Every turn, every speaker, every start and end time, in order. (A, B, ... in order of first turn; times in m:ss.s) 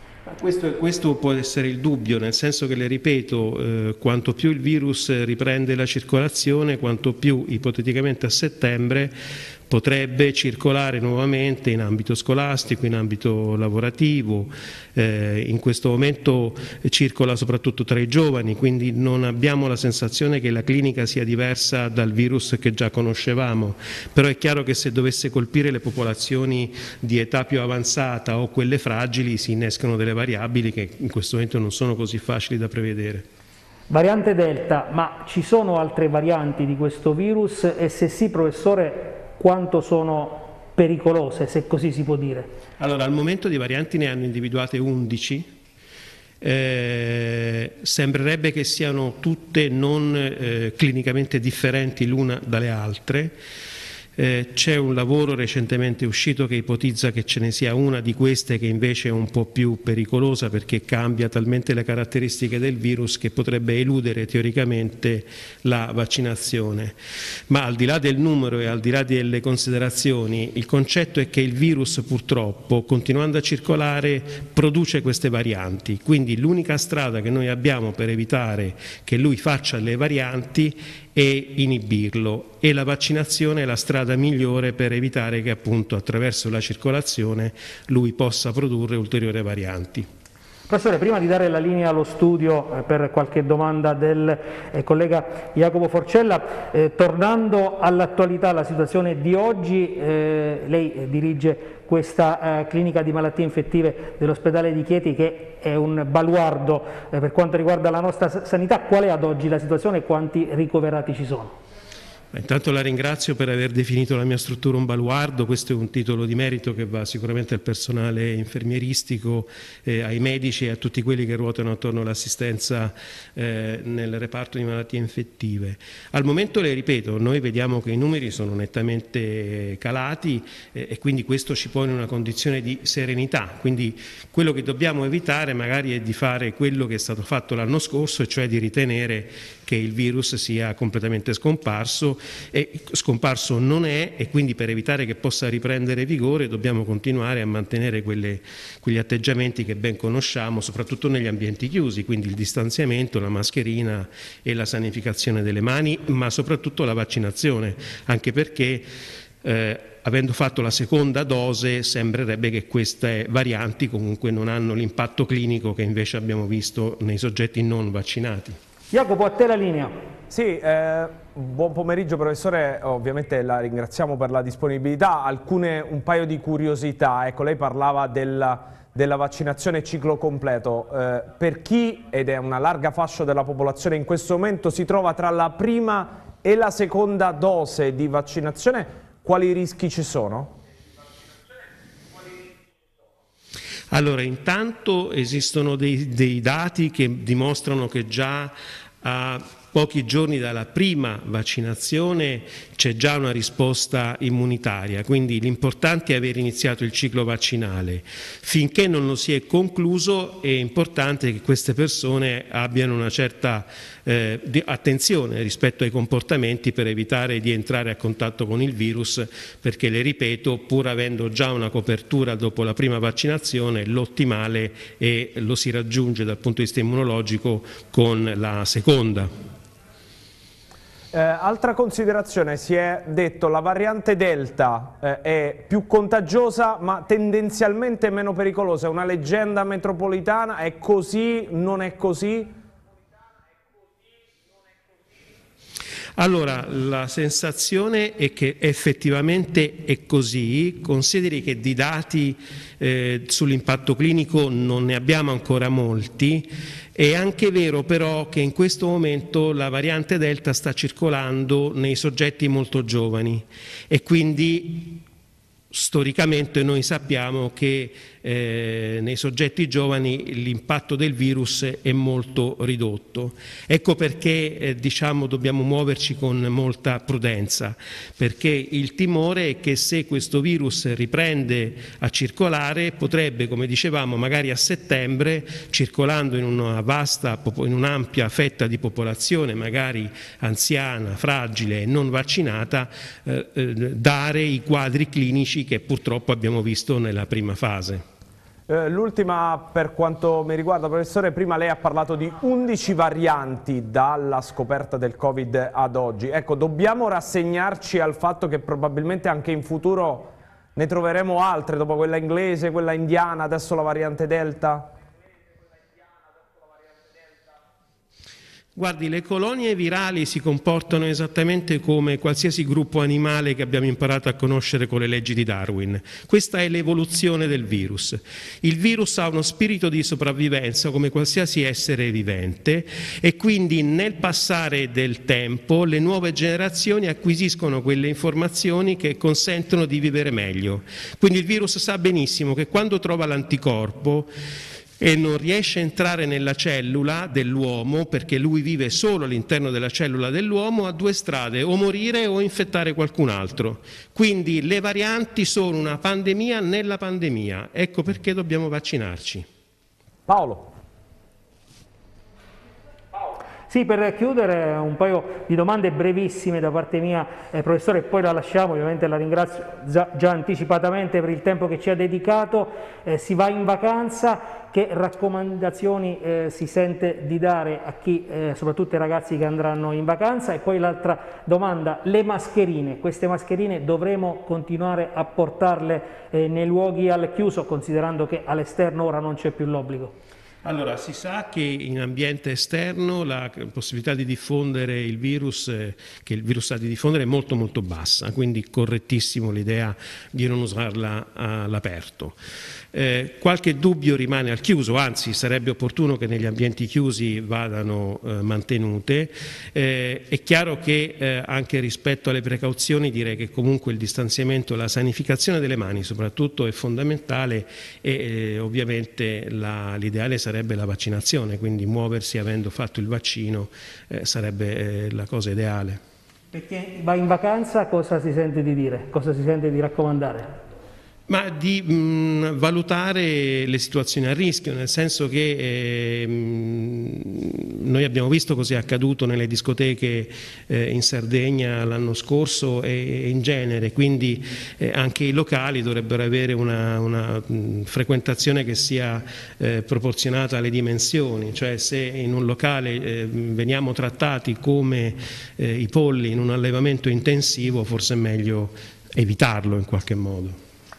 0:00.3-0:09.1 A
0:09.7-0:33.2 A
0:33.9-0:42.5 B
0:42.8-0:45.5 A
0:46.4-0:53.4 A
0:54.2-1:07.0 A
1:07.5-1:30.1 A
1:30.7-1:51.6 B
1:52.3-2:38.9 A
2:39.4-2:48.6 A
2:48.9-2:50.0 B
2:50.3-3:10.6 C
3:13.9-3:49.3 A
3:51.1-4:02.6 C
4:06.2-4:25.0 A
4:25.7-4:58.0 A
4:58.7-5:15.0 C
5:18.8-5:44.3 A
5:45.0-5:59.4 A
6:00.3-6:00.7 C
6:03.7-6:30.1 B
6:30.6-6:42.4 A
6:42.9-7:06.0 A
7:06.5-7:10.6 B
7:11.3-7:40.6 A